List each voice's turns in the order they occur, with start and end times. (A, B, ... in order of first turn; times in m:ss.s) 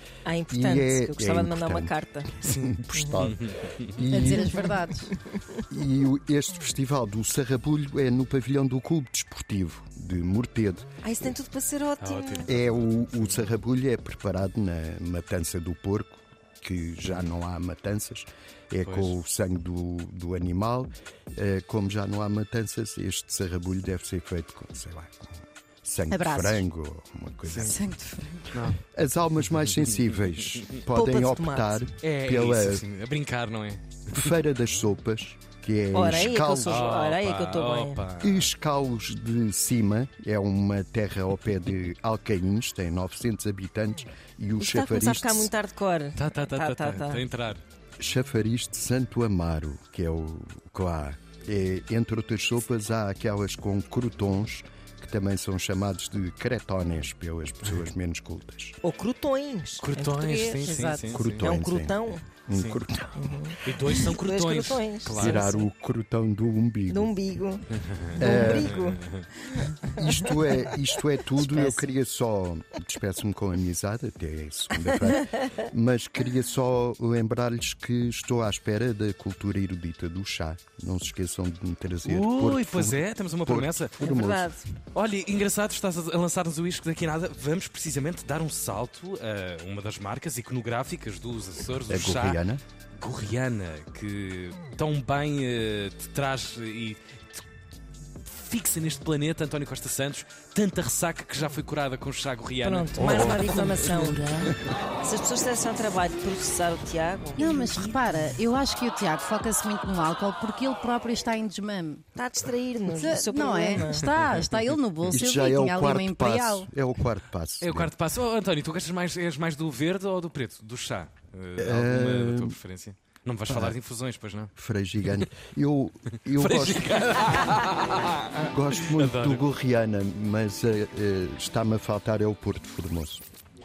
0:00.2-0:02.3 A
0:00.5-0:04.7 B
0:02.4-0:04.1 C
0:02.9-0:03.2 A
0:04.1-0:05.1 D
0:04.1-0:05.6 A
0:05.7-0:10.9 B
0:11.0-0:12.5 A
0:12.0-0:13.5 C
0:12.4-0:27.8 B
0:18.8-0:19.1 C
0:26.1-0:26.6 D
0:27.4-0:27.8 C
0:27.6-0:28.5 D
0:28.5-0:28.8 C
0:28.8-0:32.8 B
0:30.9-0:31.8 A
0:32.0-0:34.3 C
0:34.1-0:36.9 B
0:35.9-0:38.0 A
0:36.6-0:38.5 C
0:38.2-0:45.5 B
0:44.6-0:47.2 A
0:46.1-0:47.6 C
0:48.0-0:58.8 B
0:58.8-1:00.8 A
0:59.8-1:01.5 C
1:00.5-1:01.2 D
1:01.1-1:03.4 B
1:01.4-1:02.3 A
1:02.5-1:02.8 C
1:03.1-1:05.6 A
1:03.6-1:05.6 C
1:05.2-1:07.1 B
1:06.9-1:07.6 A
1:07.7-1:09.3 C
1:08.2-1:10.5 A
1:08.2-1:08.8 B
1:10.0-1:24.5 B
1:11.3-1:11.8 A
1:22.0-1:24.1 C
1:24.0-1:24.7 A
1:24.9-1:32.4 C
1:31.9-1:32.6 B
1:33.0-1:37.4 C
1:38.2-1:43.7 C
1:42.6-1:47.6 A
1:43.0-1:43.9 B
1:47.4-1:52.0 D
1:52.2-1:54.1 A
1:52.9-1:56.7 D
1:54.2-1:54.5 C
1:55.1-1:57.9 B
1:57.6-2:04.5 C
2:01.6-2:02.6 B
2:03.5-2:03.8 B
2:04.6-2:07.1 B
2:06.4-2:09.4 C
2:08.5-2:13.2 B